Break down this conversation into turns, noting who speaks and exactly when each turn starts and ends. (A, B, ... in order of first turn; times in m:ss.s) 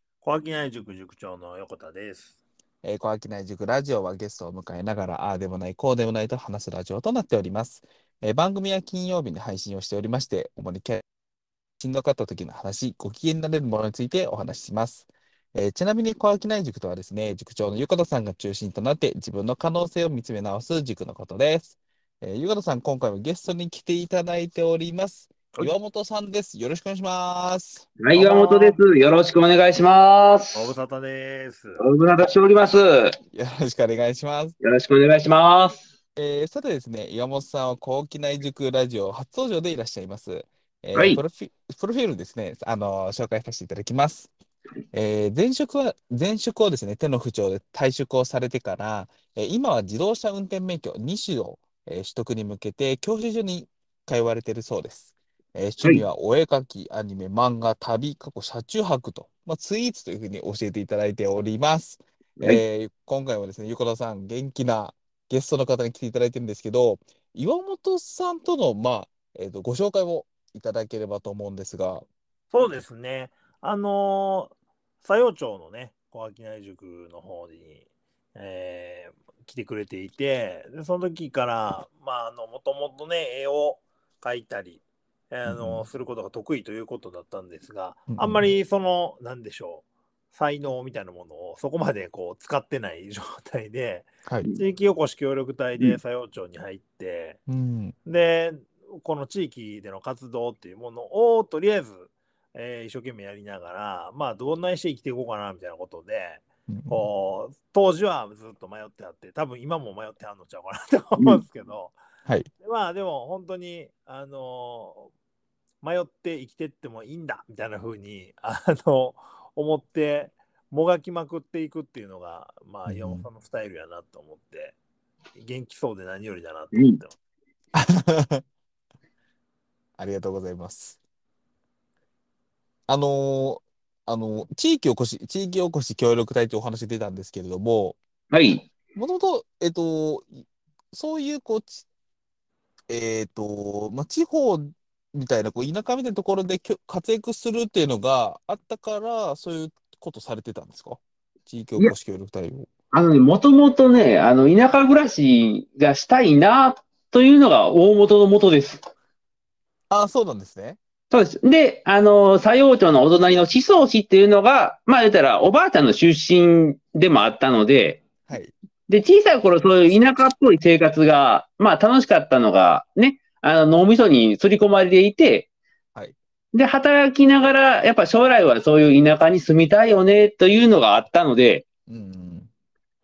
0:00.2-0:02.4 A
0:02.8-0:11.0 B
0:11.8-0:27.9 B
0:28.0-0:30.7 C
0:28.1-0:28.8 A
0:30.5-0:31.8 A
0:31.8-0:33.2 C
0:33.3-0:34.5 B
0:34.6-0:35.8 C
0:36.2-0:44.3 B
0:40.9-0:41.2 C
0:44.9-1:12.0 B
1:12.5-1:37.4 A
1:25.4-1:25.8 B
1:28.1-1:28.5 B
1:34.2-1:34.5 B
1:37.5-1:37.9 B
1:38.0-1:51.9 A
1:46.7-1:47.0 B
1:52.6-1:55.1 A
1:55.8-2:04.8 A
2:02.8-2:03.2 B
2:05.3-2:07.1 A
2:06.7-2:07.0 C
2:07.7-2:08.4 B
2:10.0-2:11.0 B
2:12.9-2:18.0 B
2:18.3-2:18.7 C
2:18.9-2:21.8 B
2:22.9-2:32.7 B
2:32.9-2:38.8 C
2:39.9-2:40.8 B
2:41.1-2:48.0 C
2:48.3-2:48.5 B
2:48.9-2:55.5 C
2:56.5-3:01.6 C
3:01.9-3:02.5 B